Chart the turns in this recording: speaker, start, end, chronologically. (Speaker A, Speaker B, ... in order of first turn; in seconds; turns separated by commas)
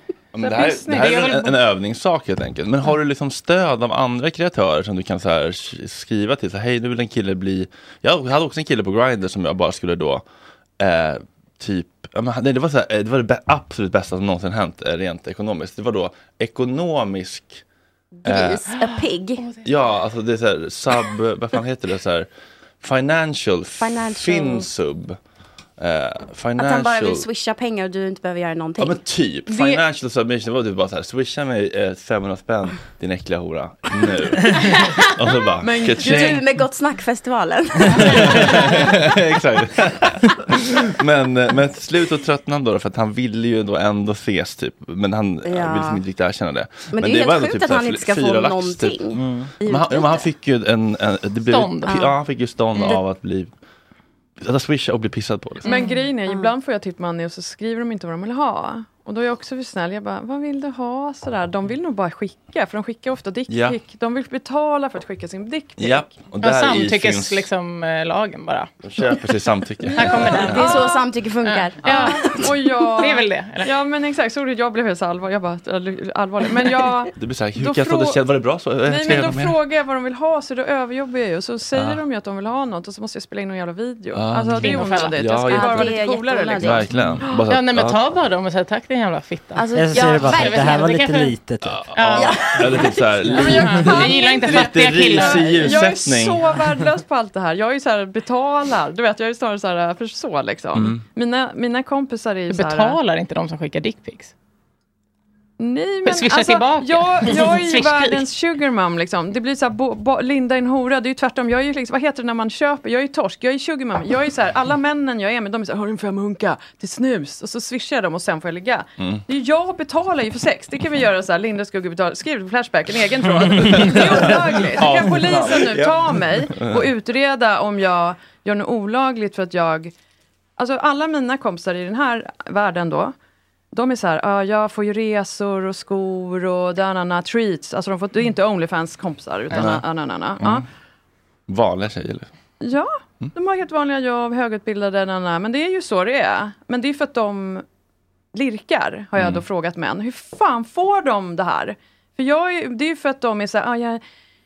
Speaker A: 0.3-10.2, Speaker B: 0.4-1.5, Speaker C: 0.9-1.4, Speaker A: 10.8-17.6, Speaker D: 18.2-19.4, Speaker A: 18.2-18.8, Speaker A: 19.6-22.3, Speaker A: 22.8-25.2, Speaker D: 23.8-24.7, Speaker A: 25.8-27.3, Speaker D: 26.6-29.0, Speaker A: 28.8-36.4, Speaker B: 29.5-29.8, Speaker B: 35.6-36.4, Speaker D: 36.0-39.0, Speaker A: 38.0-53.5, Speaker D: 45.5-46.0, Speaker D: 46.9-50.3, Speaker E: 49.2-49.5, Speaker C: 51.5-52.0, Speaker D: 51.9-52.1, Speaker A: 54.4-55.7, Speaker C: 55.6-56.0, Speaker B: 55.7-66.2, Speaker A: 63.5-63.8, Speaker A: 65.8-67.5, Speaker C: 66.4-68.7, Speaker A: 68.8-70.6, Speaker C: 70.0-73.7, Speaker B: 70.2-71.0, Speaker D: 70.5-72.5, Speaker B: 71.8-78.2, Speaker A: 77.2-79.6, Speaker B: 78.8-86.8, Speaker A: 81.7-82.0, Speaker A: 84.1-86.0, Speaker C: 84.6-85.2, Speaker D: 85.5-86.8, Speaker A: 86.6-88.0, Speaker C: 87.5-91.3, Speaker D: 89.6-91.0, Speaker E: 89.7-91.9, Speaker A: 91.6-96.4, Speaker C: 91.9-92.4, Speaker D: 92.1-93.3, Speaker B: 93.3-103.0, Speaker C: 93.4-95.7, Speaker A: 100.8-101.0, Speaker C: 102.5-104.3, Speaker B: 105.6-129.9, Speaker C: 106.0-108.3, Speaker A: 123.6-126.9, Speaker B: 130.6-133.1, Speaker B: 133.7-140.7, Speaker A: 139.5-139.8, Speaker A: 141.5-142.3, Speaker B: 142.6-147.7, Speaker B: 148.3-154.0, Speaker A: 149.2-149.4